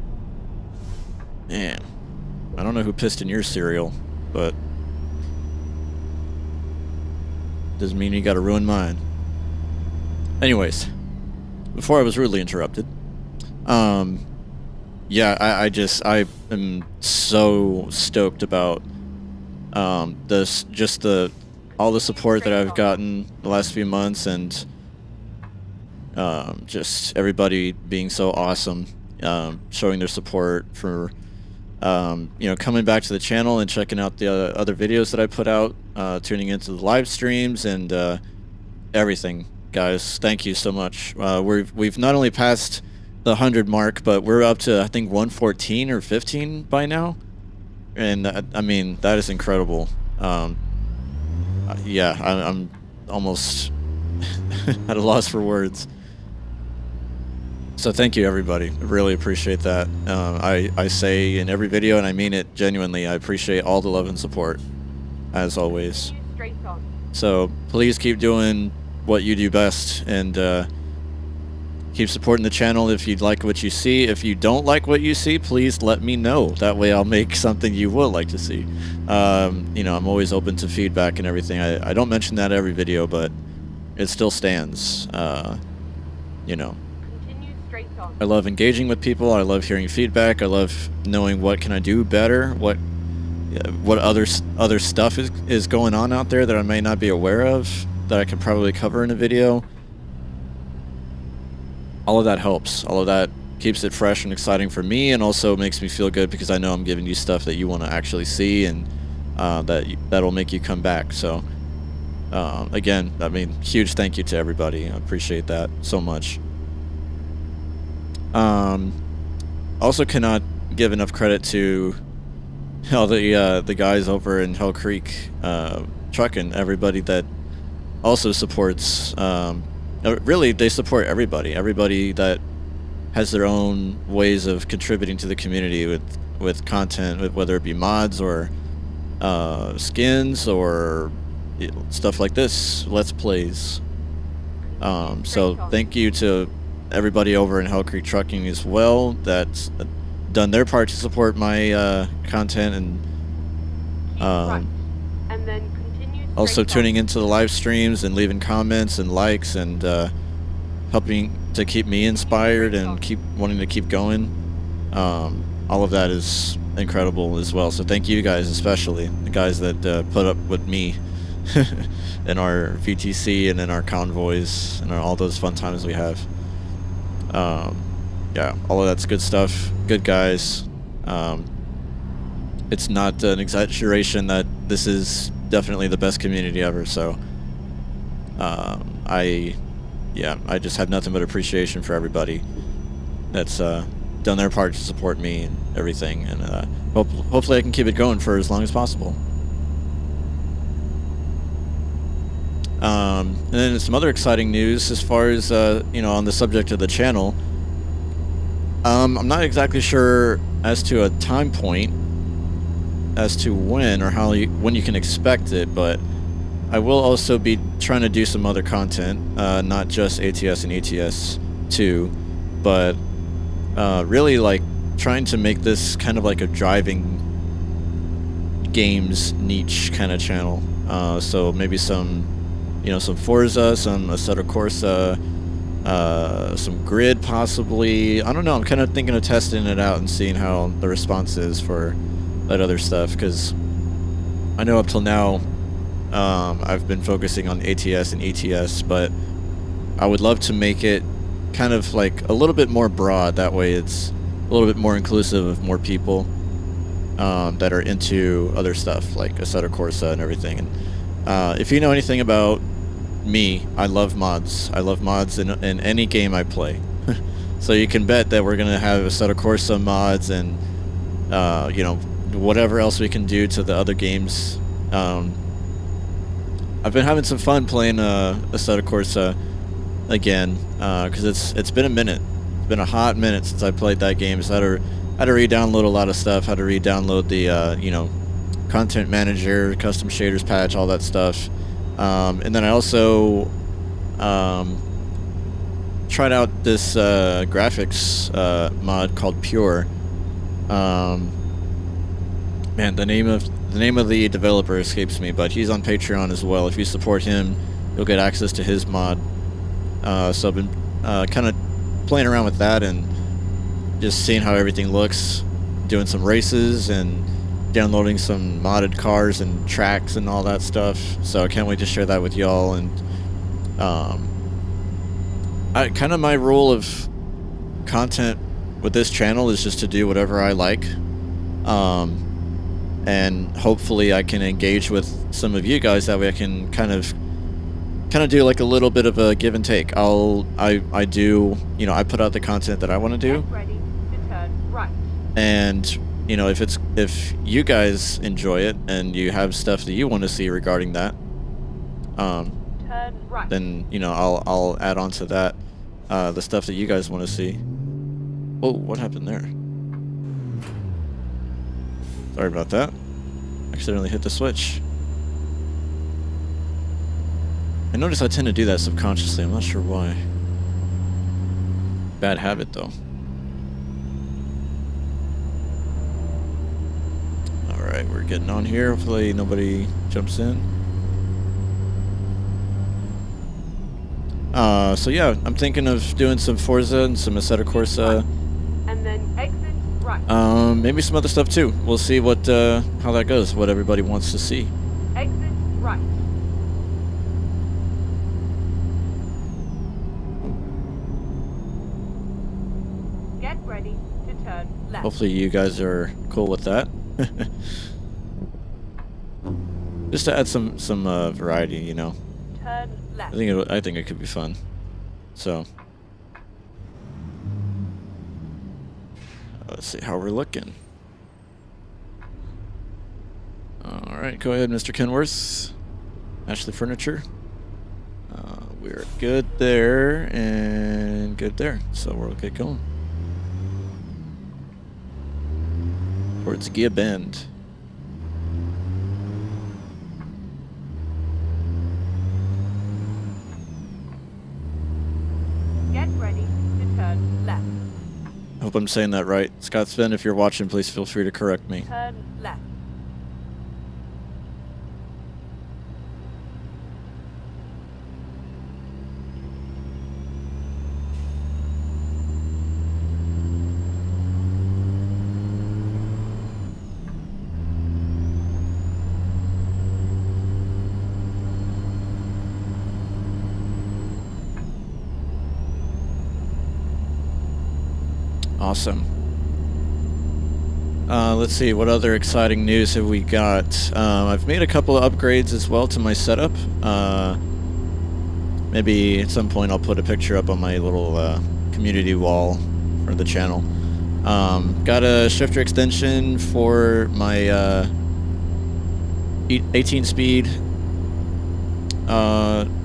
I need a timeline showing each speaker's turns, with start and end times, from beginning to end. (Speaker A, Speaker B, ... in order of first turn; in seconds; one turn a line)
Speaker A: 1.5-1.9
Speaker A: 2.6-4.5
Speaker A: 7.8-9.0
Speaker A: 10.4-10.9
Speaker A: 11.7-12.9
Speaker A: 13.7-14.2
Speaker A: 15.1-18.8
Speaker A: 19.7-24.7
Speaker B: 21.7-23.0
Speaker A: 26.1-31.1
Speaker A: 31.8-38.2
Speaker A: 38.9-47.2
Speaker A: 48.0-50.6
Speaker A: 51.7-53.7
Speaker A: 54.5-55.9
Speaker A: 57.8-64.6
Speaker A: 65.3-66.1
Speaker B: 65.7-66.9
Speaker A: 67.1-70.7
Speaker A: 71.9-83.3
Speaker A: 84.0-85.6
Speaker A: 86.5-86.8
Speaker B: 87.0-88.2
Speaker A: 88.2-92.8
Speaker A: 93.5-99.7
Speaker A: 102.1-111.5
Speaker A: 112.3-116.4
Speaker A: 118.3-119.0
Speaker A: 119.8-122.0
Speaker A: 122.9-127.3
Speaker A: 128.0-132.4
Speaker A: 133.1-138.5
Speaker A: 139.2-143.8
Speaker B: 144.6-145.8
Speaker A: 144.8-153.0
Speaker B: 154.1-154.8
Speaker A: 154.2-154.7
Speaker B: 155.3-156.9
Speaker A: 156.4-160.1
Speaker A: 160.9-164.3
Speaker B: 162.0-163.1
Speaker A: 164.9-176.3
Speaker A: 177.3-181.5
Speaker A: 182.7-187.2
Speaker A: 188.4-189.6
Speaker A: 190.1-192.4
Speaker A: 193.3-199.2
Speaker A: 202.8-207.4
Speaker A: 208.8-211.9
Speaker A: 213.2-216.0
Speaker A: 216.7-223.0
Speaker A: 223.8-227.2
Speaker A: 228.7-232.3
Speaker A: 232.8-235.2
Speaker A: 235.8-242.0
Speaker A: 242.5-243.6
Speaker A: 244.6-245.4
Speaker A: 246.1-249.1
Speaker A: 250.0-256.3
Speaker A: 257.2-262.6
Speaker A: 263.2-270.6
Speaker A: 271.3-275.4
Speaker A: 276.8-279.4
Speaker A: 280.1-288.1
Speaker A: 288.7-293.5
Speaker A: 294.2-294.8
Speaker A: 296.1-299.9
Speaker A: 300.7-301.4
Speaker A: 302.8-309.2
Speaker A: 310.0-313.1
Speaker A: 314.0-323.0
Speaker A: 323.8-324.3
Speaker A: 325.7-327.1
Speaker A: 327.9-331.0
Speaker A: 331.6-332.2
Speaker A: 333.0-337.1
Speaker A: 338.1-343.4
Speaker B: 343.2-345.2
Speaker A: 345.4-351.2
Speaker A: 352.2-352.6
Speaker B: 352.8-353.5
Speaker A: 353.5-357.6
Speaker A: 358.6-359.5
Speaker A: 362.4-362.9
Speaker A: 363.7-364.8
Speaker A: 367.9-370.2
Speaker A: 372.2-372.9
Speaker A: 377.7-380.7
Speaker A: 384.5-388.2
Speaker B: 387.7-390.3
Speaker A: 390.3-394.7
Speaker B: 395.1-396.3
Speaker B: 403.4-405.1
Speaker A: 405.0-407.7
Speaker A: 410.1-412.2
Speaker B: 412.5-413.3
Speaker A: 413.3-414.6
Speaker A: 415.4-415.7
Speaker A: 419.6-420.8
Speaker A: 423.8-425.7
Speaker A: 426.5-427.2
Speaker A: 428.3-432.8
Speaker A: 436.4-437.5
Speaker B: 445.9-447.7
Speaker A: 448.6-451.9
Speaker B: 451.8-452.6
Speaker A: 478.6-479.1
Speaker A: 481.1-487.4
Speaker A: 488.7-493.7
Speaker A: 494.2-497.9
Speaker A: 499.5-500.6
Speaker A: 502.1-502.7